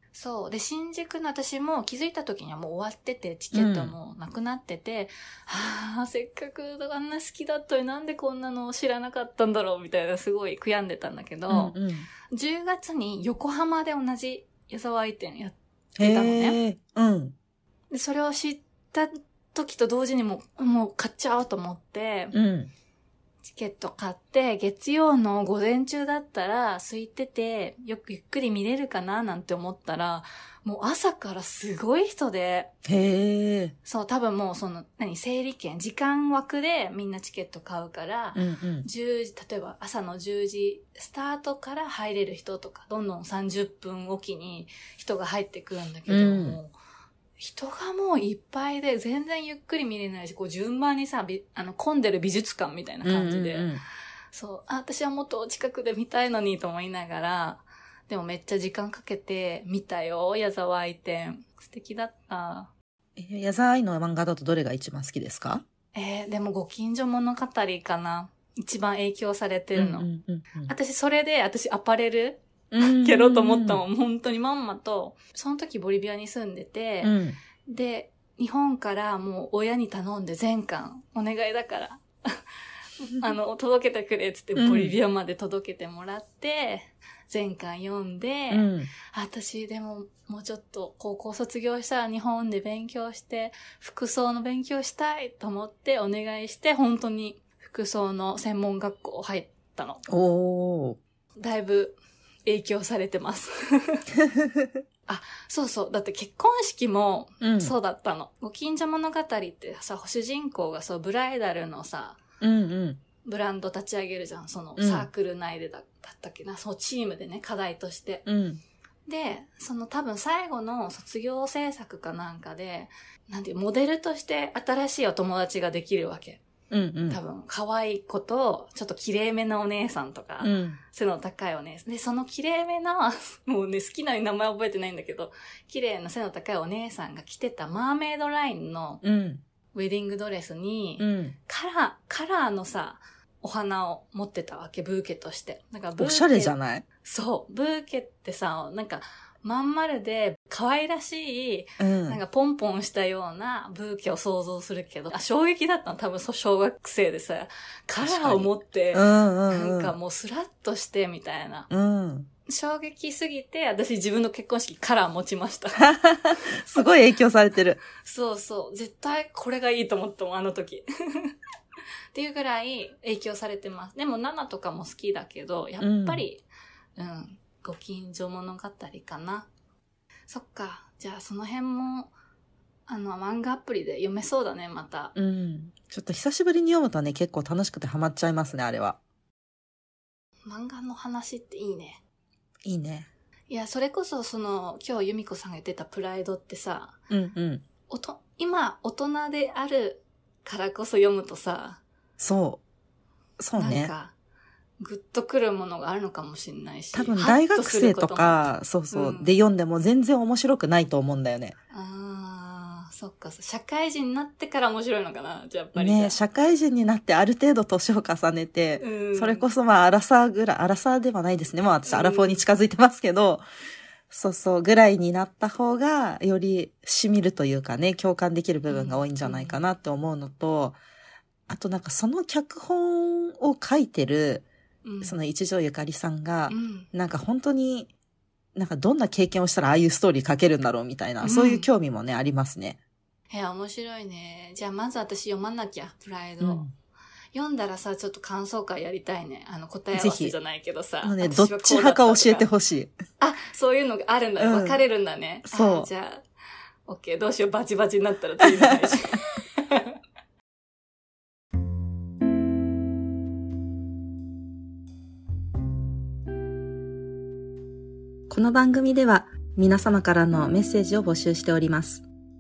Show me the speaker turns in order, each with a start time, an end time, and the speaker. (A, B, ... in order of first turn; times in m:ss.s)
0:00.1-0:11.8 A
0:03.5-0:03.9 B
0:11.5-0:12.1 B
0:12.3-0:16.6 A
0:16.0-0:17.4 B
0:17.9-0:22.4 A
0:22.3-0:22.7 B
0:23.5-0:32.7 A
0:32.9-0:33.8 B
0:33.8-0:46.7 A
0:38.4-0:38.9 B
0:46.1-0:46.6 B
0:47.4-0:53.7 A
0:53.0-0:53.8 B
0:54.3-1:02.7 A
1:03.2-1:05.6 B
1:05.9-1:10.1 A
1:09.8-1:10.7 B
1:10.7-1:17.2 A
1:12.7-1:13.8 B
1:17.0-1:17.4 B
1:17.7-1:22.4 A
1:23.0-1:40.0 A
1:24.6-1:25.0 B
1:28.5-1:28.9 B
1:40.1-1:41.0 B
1:41.4-1:44.0 A
1:44.4-1:44.7 B
1:45.1-1:52.2 A
1:47.4-1:47.8 B
1:52.4-1:53.0 B
1:53.2-1:58.3 A
1:54.8-1:55.1 B
1:58.3-1:58.6 B
1:59.1-2:06.4 A
2:06.7-2:07.2 B
2:07.1-2:19.0 A
2:10.4-2:10.8 B
2:19.0-2:19.4 B
2:19.7-2:41.7 A
2:21.0-2:21.4 B
2:26.0-2:26.9 B
2:31.8-2:32.2 B
2:38.0-2:39.9 B
2:41.7-2:42.3 B
2:42.5-2:46.9 A
2:45.8-2:47.8 B
2:48.0-2:51.3 A
2:52.1-2:56.4 A
2:55.8-2:56.2 B
2:57.0-2:59.5 A
3:00.3-3:02.1 A
3:02.9-3:05.1 A
3:05.2-3:09.0 B
3:10.5-3:12.0 A
3:12.6-3:13.1 B
3:13.5-3:17.0 A
3:17.1-3:17.7 B
3:17.9-3:21.8 A
3:22.2-3:22.6 B
3:23.4-3:23.9 B
3:23.6-3:24.1 A
3:24.8-3:29.4 A
3:26.9-3:31.6 B
3:31.7-3:36.2 A
3:35.8-3:43.4 B
3:38.8-3:39.5 A
3:41.9-3:42.4 A
3:44.1-3:50.8 B
3:48.7-3:49.6 A
3:51.5-3:54.5 B
3:54.8-3:55.2 A
3:55.0-3:57.9 B
3:56.5-3:56.9 A
3:58.6-4:02.8 B
4:01.2-4:01.7 A
4:03.3-4:06.7 A
4:06.4-4:06.7 B
4:07.3-4:12.5 A
4:10.0-4:10.4 B
4:11.0-4:12.9 B
4:13.2-4:16.2 A
4:14.4-4:14.8 B
4:15.4-4:15.9 B
4:16.9-4:19.9 A
4:18.4-4:19.0 B
4:28.3-4:32.1 B